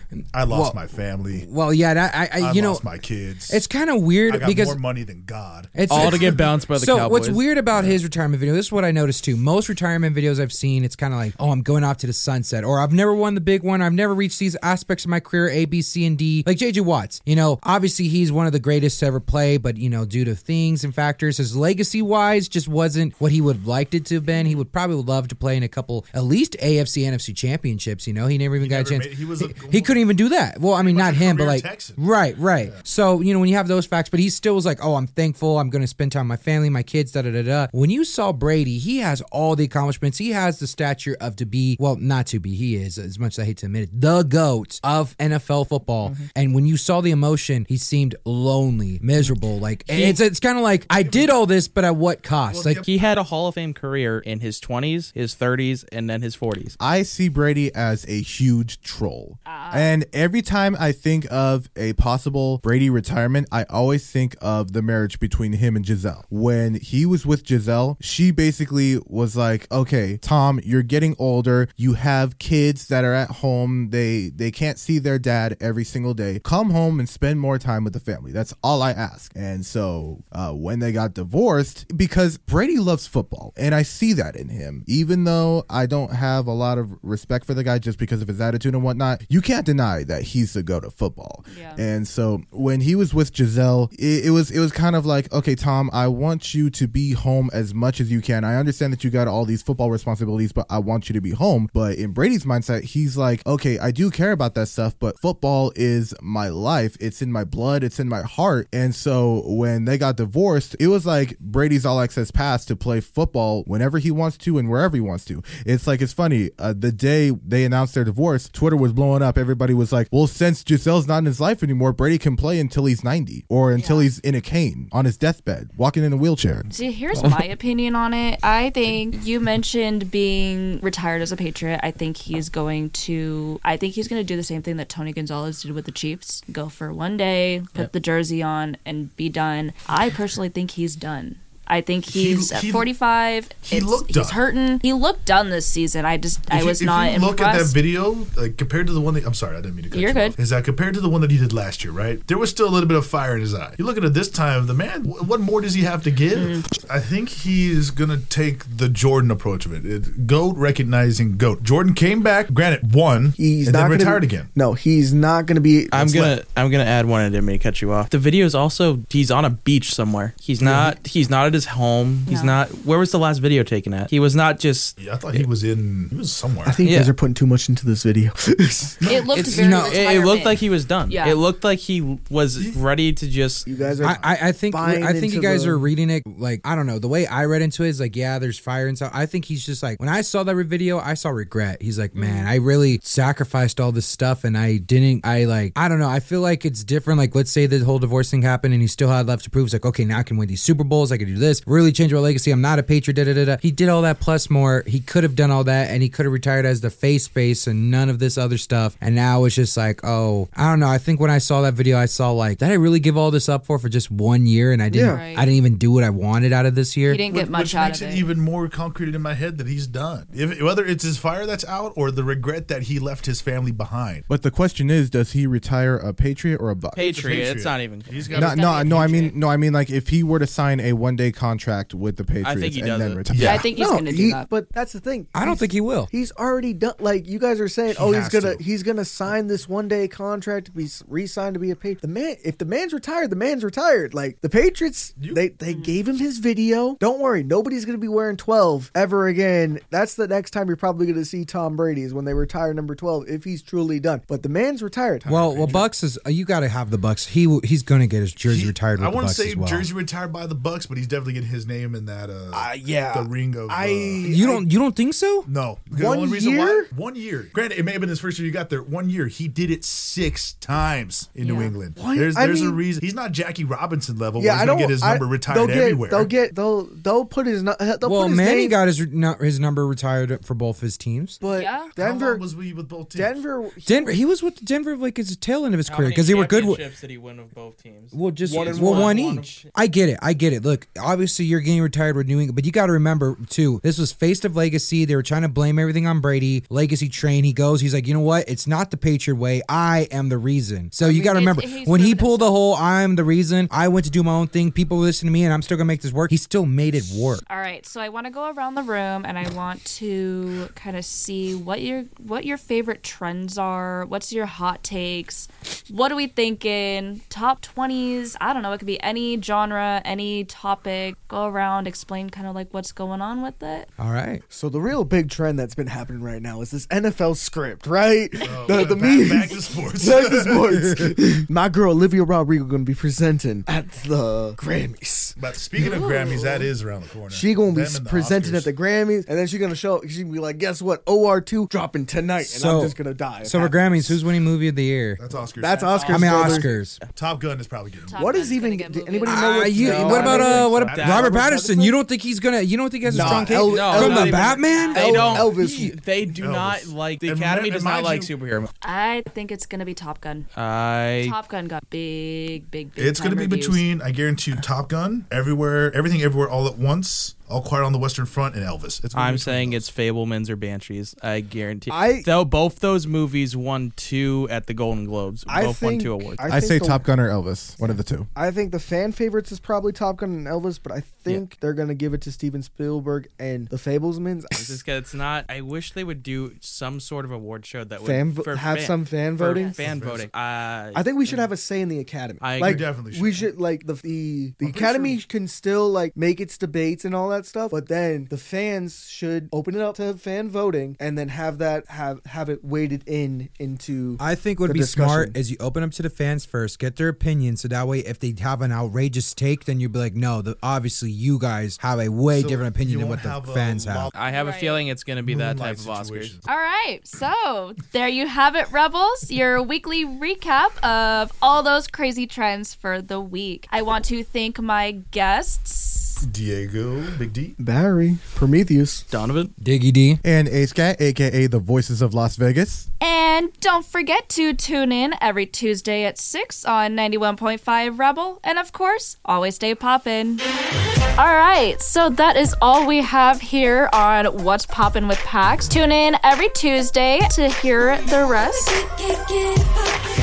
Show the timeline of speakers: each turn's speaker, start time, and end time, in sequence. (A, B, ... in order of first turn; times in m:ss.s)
0:00.2-0:00.8 A
0:00.3-0:01.5 B
0:01.3-0:02.8 A
0:02.4-0:03.6 B
0:03.5-0:04.8 A
0:04.3-0:06.7 B
0:05.7-0:52.8 A
0:05.9-0:07.4 C
0:07.7-0:08.0 B
0:24.3-0:24.6 D
0:28.6-0:30.0 B
0:30.8-0:32.0 B
0:46.0-0:46.3 C
0:49.9-0:50.2 C
0:50.9-0:51.3 B
0:52.5-0:52.9 B
0:52.8-0:56.8 C
0:56.8-2:06.7 E
0:59.4-1:00.0 D
1:31.4-1:31.8 D
2:03.7-2:04.1 D
2:06.7-2:27.8 D
2:22.1-2:22.9 B
2:23.6-2:24.4 B
2:26.5-2:44.5 B
2:29.9-2:30.4 D
2:36.3-2:36.7 D
2:43.4-2:46.1 F
2:45.9-2:55.5 C
2:46.0-2:46.4 B
2:50.6-2:51.0 B
2:52.3-2:52.6 D
2:55.0-2:56.8 B
2:56.6-2:59.0 F
2:56.8-2:57.1 C
2:59.0-2:59.6 B
2:59.0-3:01.4 D
2:59.3-3:03.7 C
2:59.5-3:00.0 A
3:03.6-3:05.9 F
3:03.7-3:04.4 B
3:04.0-3:37.2 A
3:12.1-3:12.5 D
3:34.9-3:35.2 F
3:35.0-3:35.5 D
3:37.1-3:38.3 D
3:37.3-3:44.2 B
3:44.3-3:47.1 E
3:46.9-3:48.5 C
3:47.0-3:49.1 B
3:48.3-3:49.4 D
3:48.3-3:53.6 E
3:52.4-3:53.6 C
3:53.4-3:54.5 D
3:53.5-4:15.8 F
3:55.3-3:56.1 A
3:57.9-3:58.6 B
4:05.2-4:05.4 B
4:05.7-4:05.9 D
4:15.2-4:15.8 B
4:15.3-4:19.9 A
4:18.5-4:24.2 B
4:22.5-4:24.7 F
4:24.2-4:25.5 A
4:25.4-4:36.3 B
4:25.9-4:26.9 F
4:31.4-4:31.8 D
4:32.0-4:32.8 F
4:34.4-4:38.8 F
4:38.0-4:41.4 A
4:41.4-4:42.5 F
4:41.4-4:41.9 D
4:42.0-4:43.4 B
4:43.1-4:44.2 F
4:43.8-4:46.8 A
4:45.8-4:49.6 C
4:48.1-5:07.4 A
4:48.5-4:49.6 F
5:01.0-5:02.6 D
5:07.4-5:23.9 D
5:24.0-5:24.4 A
5:24.5-5:36.6 F
5:28.4-5:31.0 B
5:28.5-5:28.9 D
5:35.4-5:38.7 B
5:35.8-5:36.6 D
5:37.3-5:44.2 F
5:42.4-5:45.2 A
5:45.2-5:46.6 B
5:45.6-5:46.7 F
5:45.9-5:47.1 C
5:46.1-5:47.0 A
5:47.1-5:48.5 B
5:48.1-5:49.8 D
5:48.2-5:52.0 F
5:49.2-5:55.8 A
5:49.8-5:51.5 C
5:50.7-5:51.3 B
5:53.0-5:56.0 F
5:53.2-5:53.7 B
5:53.7-5:58.7 C
5:54.6-5:55.1 D
5:56.3-5:58.3 B
5:58.8-6:00.5 D
6:00.5-6:01.4 C
6:01.2-6:03.8 D
6:03.0-6:09.8 B
6:09.1-6:16.4 C
6:11.9-6:12.3 F
6:15.5-6:17.1 F
6:16.5-6:18.3 E
6:17.8-6:24.8 F
6:24.5-6:31.5 C
6:28.0-6:29.8 F
6:29.5-6:29.8 D
6:29.8-6:30.3 B
6:30.9-6:45.4 F
6:32.4-6:32.9 C
6:32.6-6:33.5 B
6:34.6-6:35.2 B
6:44.2-6:54.1 A
6:52.3-6:54.1 B
6:54.1-6:56.3 C
6:54.3-6:54.8 D
6:55.2-6:56.5 B
6:56.4-7:06.2 D
7:06.2-7:07.6 B
7:07.6-7:09.0 F
7:09.1-7:09.5 C
7:09.6-7:10.2 A
7:10.2-7:12.9 E
7:13.0-7:20.4 D
7:21.1-7:29.8 D